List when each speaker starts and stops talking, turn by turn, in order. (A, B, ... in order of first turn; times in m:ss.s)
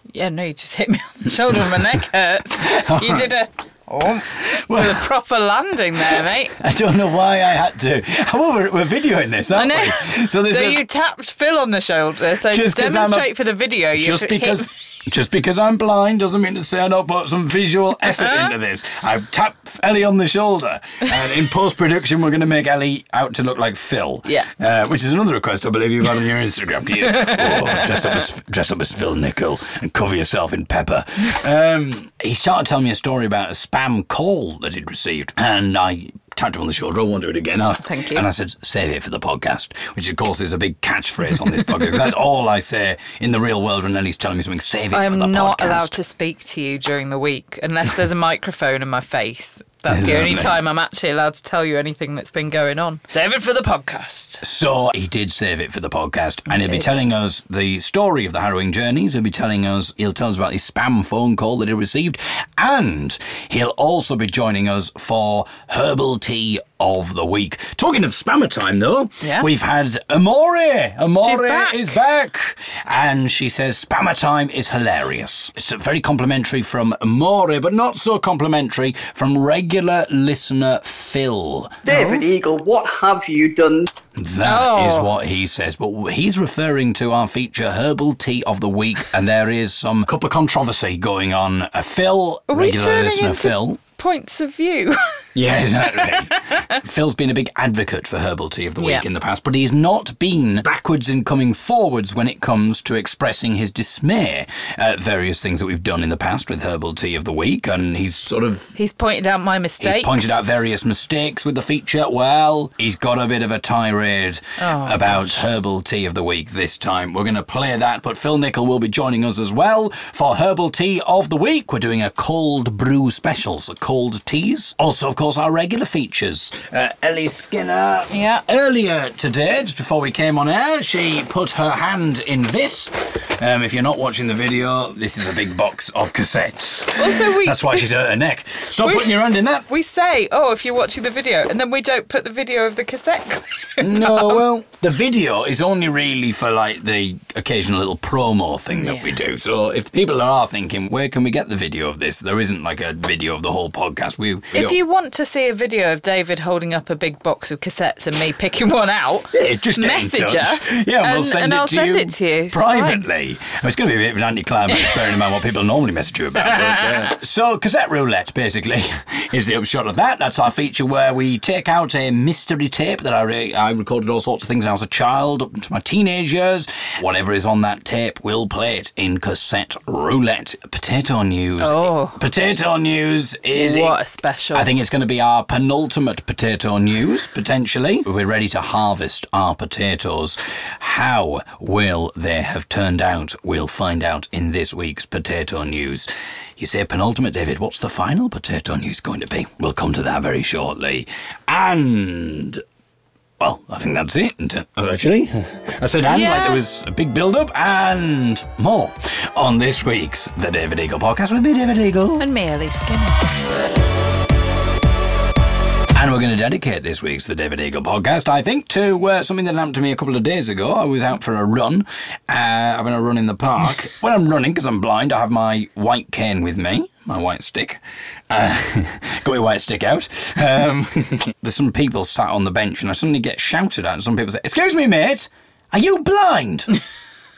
0:00.1-0:06.5 A
0:01.5-0:01.8 B
0:02.6-0:03.3 B
0:04.3-0:05.1 B
0:06.1-0:10.8 B
0:09.5-0:14.7 A
0:12.5-0:13.3 B
0:13.9-0:46.0 B
0:27.2-0:27.8 A
0:37.8-0:38.2 A
0:44.9-0:54.4 A
0:49.9-0:50.6 B
0:54.4-1:21.8 B
0:56.5-0:57.0 A
1:09.2-1:09.5 A
1:11.2-1:12.0 A
1:21.8-1:23.9 C
1:21.9-1:22.2 A
1:24.2-1:33.8 B
1:24.4-1:25.1 A
1:32.5-1:35.2 A
1:35.3-1:48.7 B
1:36.3-1:36.7 A
1:38.8-1:39.0 A
1:48.8-1:50.4 A
1:49.8-2:19.6 B
1:54.6-1:55.4 A
2:08.1-2:08.4 A
2:17.0-2:17.9 A
2:18.8-2:19.2 A
2:19.7-2:24.4 A
2:23.8-2:34.8 B
2:28.7-2:29.2 A
2:34.5-2:43.0 A
2:39.3-3:04.0 B
2:44.7-2:45.0 A
2:46.4-2:47.1 A
3:01.6-3:02.2 A
3:03.5-3:04.7 A
3:04.5-3:22.6 B
3:23.4-3:32.3 B
3:26.0-3:26.6 A
3:32.2-3:33.4 A
3:35.9-3:56.8 B